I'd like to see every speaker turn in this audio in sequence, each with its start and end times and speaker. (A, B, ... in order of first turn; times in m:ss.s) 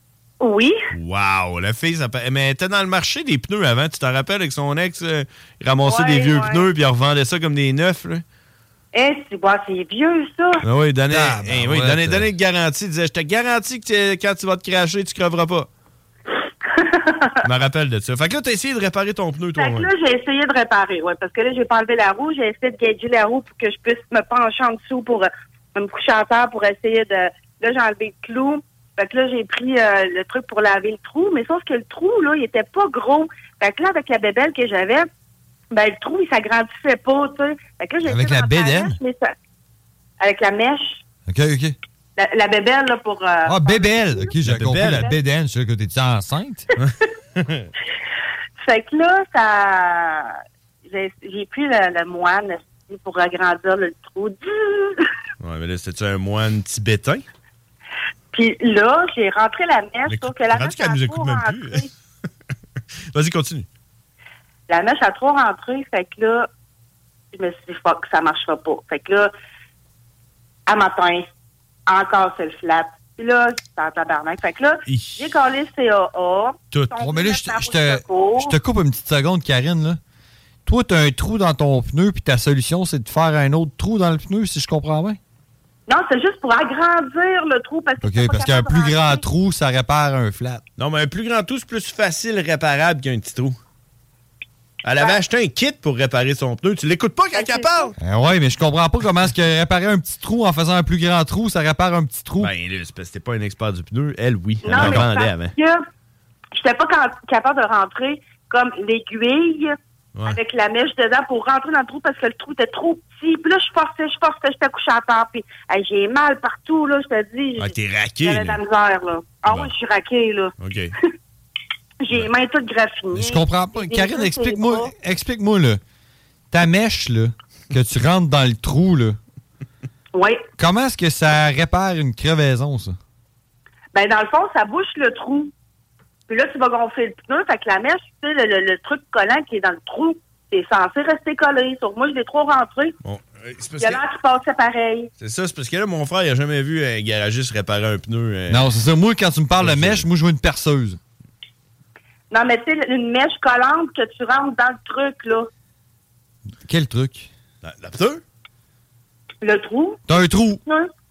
0:00.4-0:00.8 A
0:00.9-0:08.2 B
0:05.8-0:06.7 A
0:08.9-0:10.6 A
0:10.6-0:15.7 B
0:11.1-0:12.2 C
0:16.7-0:17.3 A
0:17.4-0:19.9 B
0:19.6-0:35.1 A
0:35.7-0:39.3 A
0:38.0-0:39.0 C
0:40.2-0:41.0 A
0:41.3-0:41.8 C
0:42.2-0:44.3 A
0:43.4-0:46.6 C
0:44.4-0:45.1 B
0:46.8-0:47.7 B
0:48.6-0:50.3 A
0:50.9-0:55.0 A
0:55.4-0:57.2 B
0:58.3-1:01.9 A
1:00.1-1:01.9 B
1:03.1-1:03.7 B
1:04.7-1:06.5 A
1:07.3-1:09.3 A
1:10.7-1:11.2 A
1:11.9-1:18.6 A
1:14.9-1:15.3 B
1:17.0-1:20.0 C
1:20.6-1:25.2 C
1:25.9-1:29.2 A
1:28.0-1:30.6 C
1:30.8-1:33.6 B
1:34.8-1:37.9 B
1:37.3-1:37.9 A
1:38.0-1:42.5 C
1:42.4-1:45.6 B
1:44.6-1:45.8 A
1:44.7-1:45.1 C
1:46.5-2:00.5 A
1:50.1-1:50.4 B
1:57.6-1:58.6 B
1:59.5-1:59.7 B
2:00.6-2:00.9 B
2:02.0-2:04.9 A
2:03.1-2:05.8 C
2:06.5-2:09.2 C
2:10.1-2:10.4 A
2:10.6-2:13.0 C
2:13.9-2:15.5 A
2:16.3-2:22.9 A
2:23.0-2:24.0 B
2:23.8-2:25.1 A
2:25.2-2:28.7 B
2:28.5-2:31.0 C
2:29.6-2:30.0 B
2:32.3-2:35.5 A
2:36.6-2:37.3 C
2:37.6-2:38.2 B
2:39.4-2:40.0 A
2:40.1-2:40.6 C